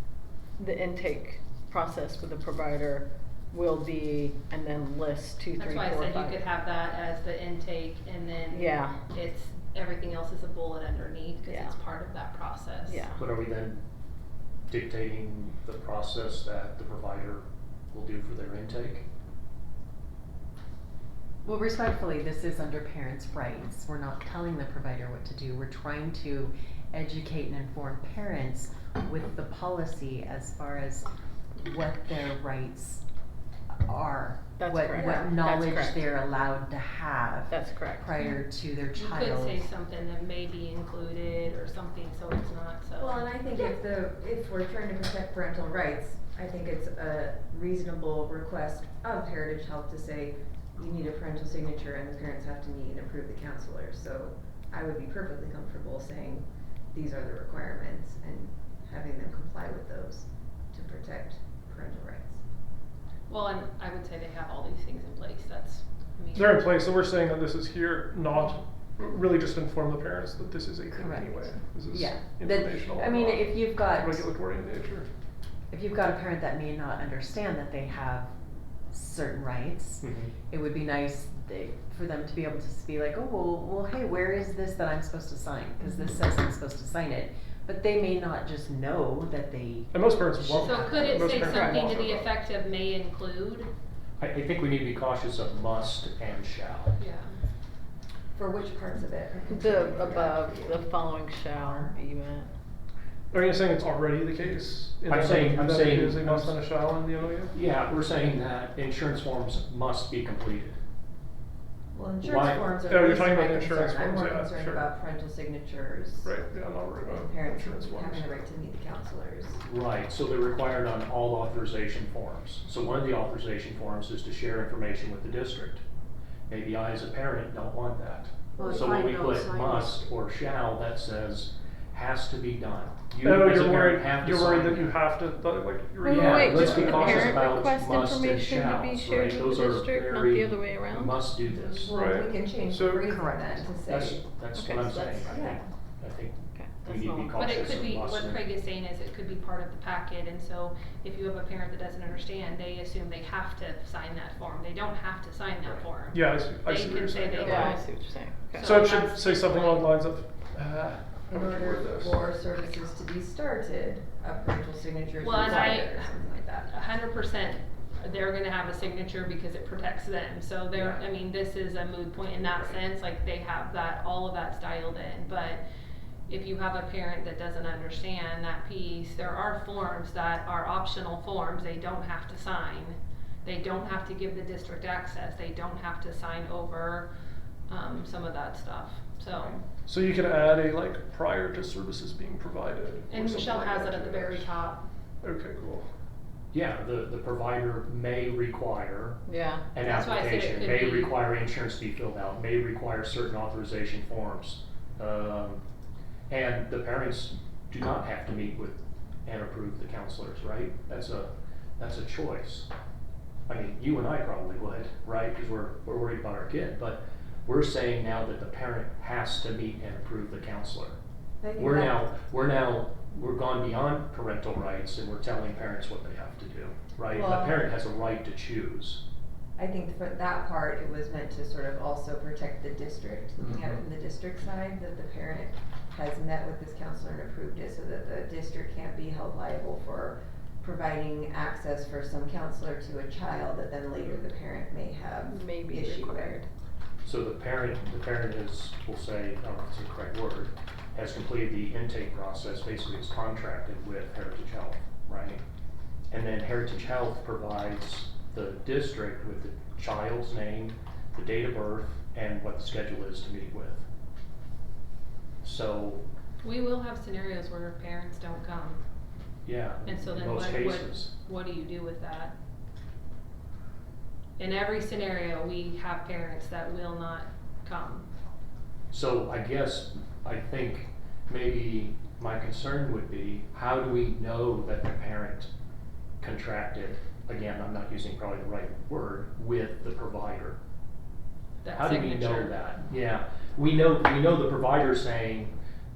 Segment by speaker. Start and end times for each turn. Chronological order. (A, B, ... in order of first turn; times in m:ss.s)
0:00.6-0:06.4 A
0:05.6-0:13.0 B
0:08.5-0:09.0 A
0:11.4-0:11.8 A
0:12.9-0:13.2 A
0:13.2-0:13.8 C
0:14.7-0:17.4 C
0:17.9-0:19.0 C
0:21.4-0:31.1 D
0:31.6-0:33.0 D
0:33.7-0:39.6 D
0:34.6-0:36.1 A
0:34.9-0:35.4 E
0:37.5-0:38.1 A
0:38.9-0:43.2 B
0:43.0-1:02.4 E
1:03.3-1:06.6 B
1:06.3-1:15.1 F
1:10.9-1:14.3 D
1:15.7-1:18.3 D
1:18.9-1:31.4 D
1:20.0-1:20.3 C
1:29.9-1:32.4 F
1:30.6-1:33.7 B
1:31.5-1:31.8 A
1:34.2-1:36.9 C
1:37.0-1:37.4 B
1:38.3-1:41.9 E
1:39.5-1:42.5 A
1:43.3-1:47.6 F
1:45.1-1:46.6 C
1:47.5-1:50.8 C
1:51.9-1:56.3 E
1:52.2-1:52.8 C
1:52.8-1:54.8 F
1:56.2-1:58.4 F
1:57.0-1:59.6 E
1:59.6-2:05.8 C
2:06.5-2:15.0 C
2:08.6-2:10.0 D
2:13.2-2:17.4 F
2:16.0-2:21.1 A
2:16.1-2:21.9 C
2:21.5-2:24.2 E
2:21.8-2:23.3 F
2:23.8-2:28.4 C
2:24.5-2:25.6 A
2:25.2-2:25.6 E
2:26.5-2:27.4 A
2:27.4-2:38.0 B
2:35.6-2:35.9 C
2:36.1-2:37.8 F
2:37.4-2:38.7 A
2:38.6-2:39.9 B
2:38.6-2:42.2 F
2:41.3-2:46.7 E
2:45.2-2:55.6 B
2:50.7-2:51.0 C
2:56.3-3:07.1 B
3:07.7-3:09.6 B
3:09.8-3:14.6 F
3:13.1-3:14.9 B
3:15.2-3:15.9 F
3:16.5-3:19.2 C
3:19.2-3:19.6 A
3:19.7-3:25.6 C
3:19.8-3:21.2 B
3:26.3-3:32.7 C
3:33.5-3:41.0 C
3:41.4-3:42.0 E
3:41.6-3:49.0 C
3:47.2-3:47.6 E
3:49.6-4:06.4 E
3:53.4-3:53.8 C
4:05.3-4:06.5 A
4:07.0-4:15.4 C
4:16.1-4:23.8 C
4:25.4-4:26.0 C
4:26.4-4:28.8 B
4:29.4-4:31.1 C
4:29.8-4:32.3 B
4:34.4-4:38.1 B
4:38.9-4:45.5 C
4:46.2-4:50.6 C
4:51.6-4:52.5 B
4:51.7-4:55.5 C